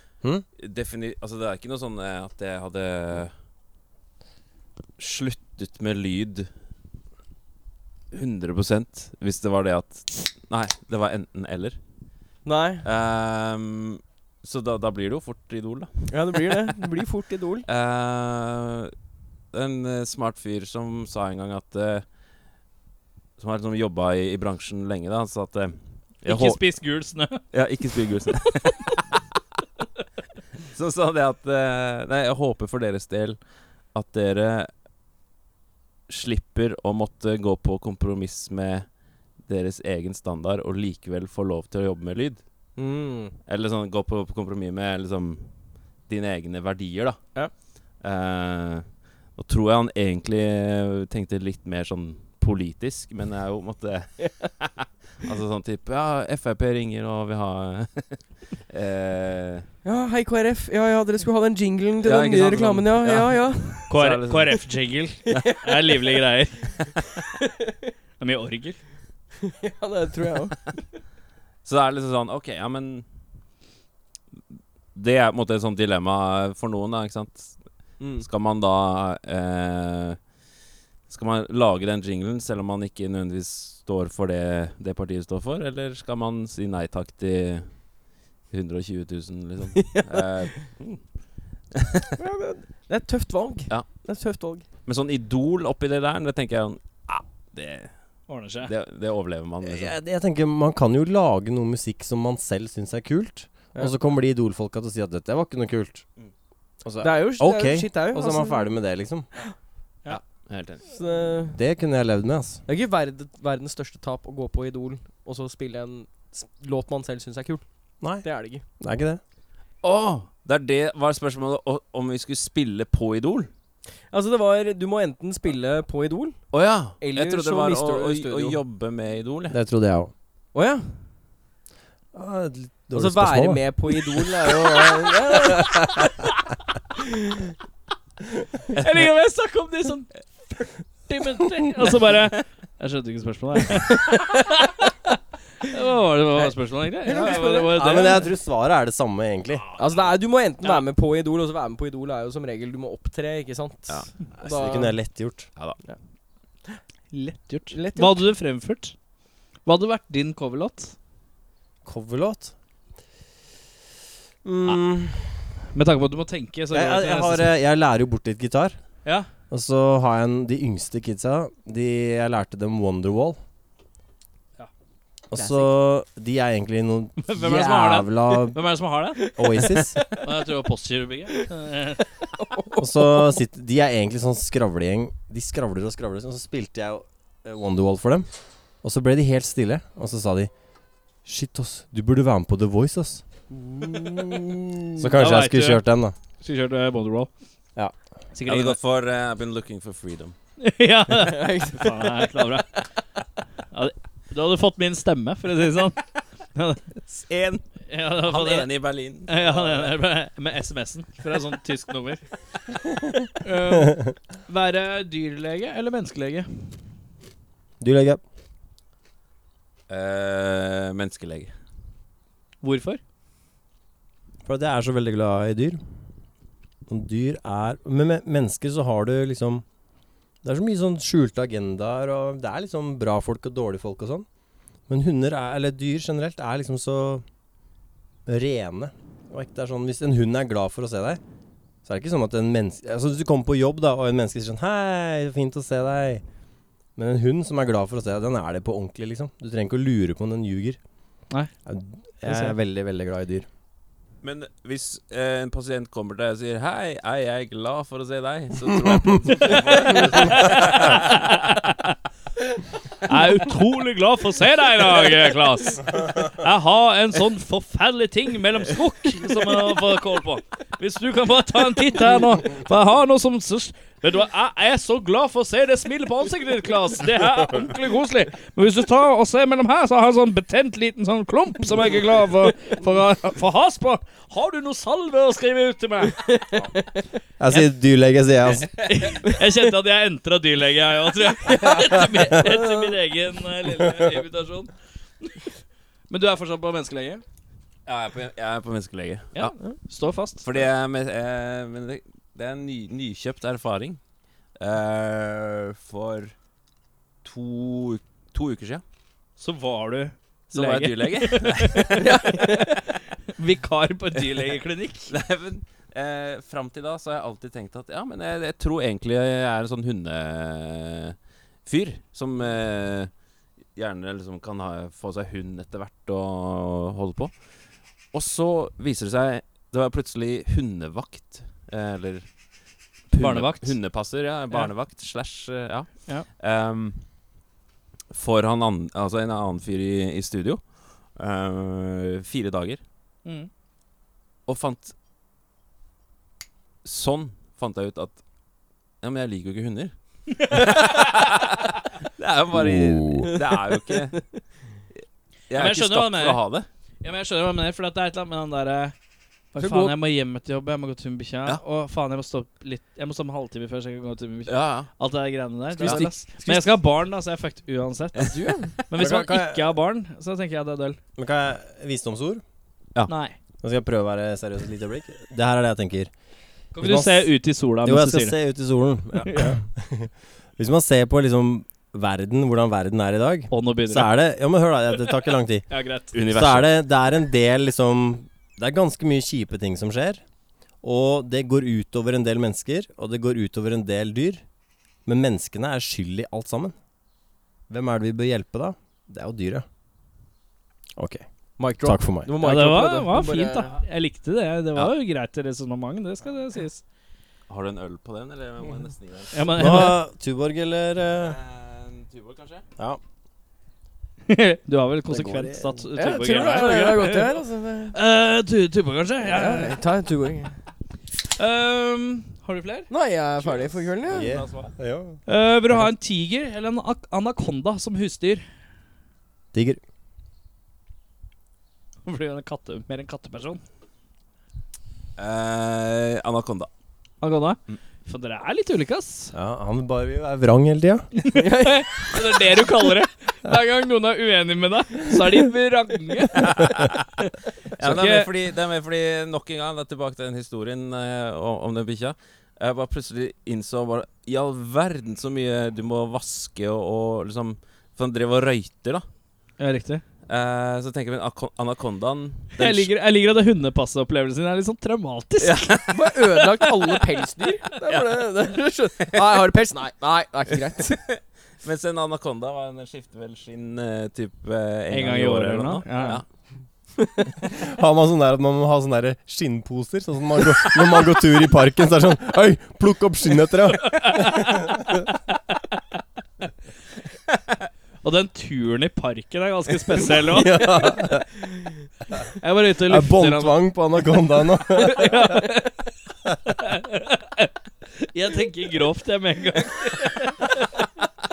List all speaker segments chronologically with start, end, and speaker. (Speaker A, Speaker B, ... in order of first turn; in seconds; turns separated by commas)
Speaker A: 0.6-3.3, Speaker A: 5.0-6.5, Speaker A: 8.1-11.8, Speaker B: 12.4-12.8, Speaker A: 12.8-16.1, Speaker B: 16.1-17.6, Speaker A: 17.6-18.9, Speaker A: 19.5-22.1, Speaker A: 23.4-26.6, Speaker C: 26.2-27.5, Speaker A: 27.5-28.9, Speaker C: 28.5-29.0, Speaker A: 30.7-34.7, Speaker A: 36.1-42.4, Speaker B: 42.8-43.3, Speaker A: 43.5-45.5, Speaker A: 46.0-59.6, Speaker B: 59.8-63.9, Speaker A: 62.0-64.6, Speaker C: 63.9-66.8, Speaker B: 65.3-65.8, Speaker B: 67.4-67.9, Speaker C: 68.2-68.8, Speaker B: 69.4-70.7, Speaker A: 71.6-73.0, Speaker A: 74.9-77.6, Speaker B: 78.0-78.3, Speaker A: 78.2-80.2, Speaker A: 81.1-87.8, Speaker A: 88.5-91.0, Speaker B: 89.8-90.4, Speaker A: 91.7-92.1, Speaker B: 92.2-94.7, Speaker A: 94.8-99.9, Speaker C: 98.3-98.7, Speaker D: 99.6-106.0, Speaker D: 106.8-109.3, Speaker B: 107.0-108.7, Speaker A: 110.1-110.9, Speaker B: 110.9-111.6, Speaker D: 111.5-112.6, Speaker B: 112.7-117.6, Speaker D: 118.0-118.3, Speaker B: 118.2-118.6, Speaker D: 118.8-119.2, Speaker A: 119.8-123.5, Speaker B: 124.1-128.6, Speaker A: 126.5-129.6, Speaker D: 129.5-130.1, Speaker B: 130.5-130.9, Speaker D: 132.1-133.6, Speaker B: 132.9-136.1, Speaker B: 137.0-137.4, Speaker C: 138.7-148.2, Speaker B: 147.0-148.2, Speaker D: 147.7-149.6, Speaker B: 149.8-154.9, Speaker A: 153.9-154.2, Speaker D: 154.4-155.5, Speaker A: 155.5-155.8, Speaker C: 157.1-158.9, Speaker B: 157.7-158.2, Speaker C: 159.6-160.9, Speaker D: 161.8-162.5, Speaker D: 164.4-165.4, Speaker C: 165.7-167.5, Speaker D: 166.7-168.8, Speaker D: 169.5-173.4, Speaker D: 175.3-178.6, Speaker B: 175.3-175.7, Speaker C: 177.2-179.3, Speaker D: 179.3-180.1, Speaker B: 179.4-180.0, Speaker C: 180.2-182.1, Speaker B: 182.2-183.3, Speaker D: 182.8-188.3, Speaker D: 188.8-190.5, Speaker D: 191.2-193.2, Speaker B: 193.5-194.6, Speaker D: 194.9-196.2, Speaker C: 195.2-195.8, Speaker C: 196.4-197.3, Speaker C: 198.3-198.8, Speaker A: 198.4-200.3, Speaker C: 200.6-202.7, Speaker B: 201.2-202.4, Speaker C: 203.7-206.0, Speaker C: 206.5-206.9, Speaker A: 207.1-207.6, Speaker C: 207.9-212.2, Speaker A: 208.2-209.9, Speaker C: 213.4-216.8, Speaker D: 217.8-218.2, Speaker A: 219.9-221.5, Speaker C: 222.6-223.0, Speaker D: 224.4-225.8, Speaker D: 226.9-229.6, Speaker D: 230.4-234.2, Speaker D: 234.9-237.2, Speaker D: 238.2-241.2, Speaker D: 241.8-246.2, Speaker D: 246.9-250.8, Speaker D: 251.7-253.5, Speaker C: 252.3-252.5, Speaker A: 254.2-261.2, Speaker C: 259.8-261.9, Speaker C: 263.1-286.2, Speaker B: 286.1-287.0, Speaker D: 287.4-288.7, Speaker A: 288.6-289.1, Speaker C: 288.7-295.5, Speaker B: 291.4-292.9, Speaker C: 296.1-297.2, Speaker A: 297.9-299.5, Speaker C: 299.3-300.6, Speaker A: 300.4-304.0, Speaker A: 304.6-306.3, Speaker A: 307.2-308.8, Speaker C: 309.4-315.1, Speaker A: 310.5-312.2, Speaker B: 311.9-312.7, Speaker A: 315.1-323.1, Speaker A: 323.7-327.4, Speaker A: 328.1-332.3, Speaker C: 333.1-333.8, Speaker A: 333.1-337.0, Speaker A: 338.1-342.8, Speaker A: 344.5-344.9, Speaker A: 346.8-348.2, Speaker A: 349.0-354.2, Speaker C: 350.4-350.9, Speaker D: 352.5-353.4, Speaker B: 353.2-354.2, Speaker A: 355.5-356.7, Speaker C: 355.5-356.4, Speaker C: 357.0-358.9, Speaker C: 359.5-371.0, Speaker B: 359.6-359.9, Speaker A: 364.5-364.9, Speaker B: 365.7-366.7, Speaker B: 368.2-368.7, Speaker D: 368.9-369.7, Speaker D: 371.2-372.4, Speaker C: 373.1-373.4, Speaker D: 373.6-376.1, Speaker C: 376.7-378.4, Speaker D: 376.8-385.7, Speaker C: 379.2-379.6, Speaker C: 383.5-384.1, Speaker C: 385.7-386.1, Speaker A: 386.1-386.7, Speaker D: 386.3-390.2, Speaker D: 390.8-394.4, Speaker D: 395.1-396.7, Speaker D: 397.7-399.6, Speaker D: 401.0-401.2, Speaker B: 401.6-403.8, Speaker D: 401.8-402.3, Speaker C: 402.4-406.8, Speaker A: 407.5-409.6, Speaker C: 409.3-410.0, Speaker D: 409.6-411.4, Speaker A: 411.2-412.6, Speaker C: 414.3-417.4, Speaker D: 415.1-415.9, Speaker B: 415.9-417.9, Speaker C: 417.9-419.8, Speaker B: 419.2-420.6, Speaker C: 421.4-422.9, Speaker B: 422.9-424.4, Speaker A: 423.4-424.8, Speaker D: 424.1-425.9, Speaker C: 425.2-428.4, Speaker D: 429.5-429.8, Speaker C: 432.1-433.6, Speaker A: 435.2-436.7, Speaker C: 437.2-439.3, Speaker D: 439.3-441.1, Speaker C: 441.2-448.3, Speaker B: 441.3-442.6, Speaker A: 446.4-447.0, Speaker A: 447.8-459.1, Speaker C: 459.6-460.0, Speaker A: 460.3-462.9, Speaker C: 462.6-466.7, Speaker A: 465.4-466.0, Speaker B: 465.9-471.0, Speaker A: 470.8-476.2, Speaker C: 474.9-476.2, Speaker D: 477.4-484.6, Speaker C: 483.8-485.1, Speaker C: 488.0-490.9, Speaker D: 490.3-491.3, Speaker C: 492.4-493.7, Speaker D: 492.8-495.4, Speaker C: 494.8-495.9, Speaker C: 496.4-500.8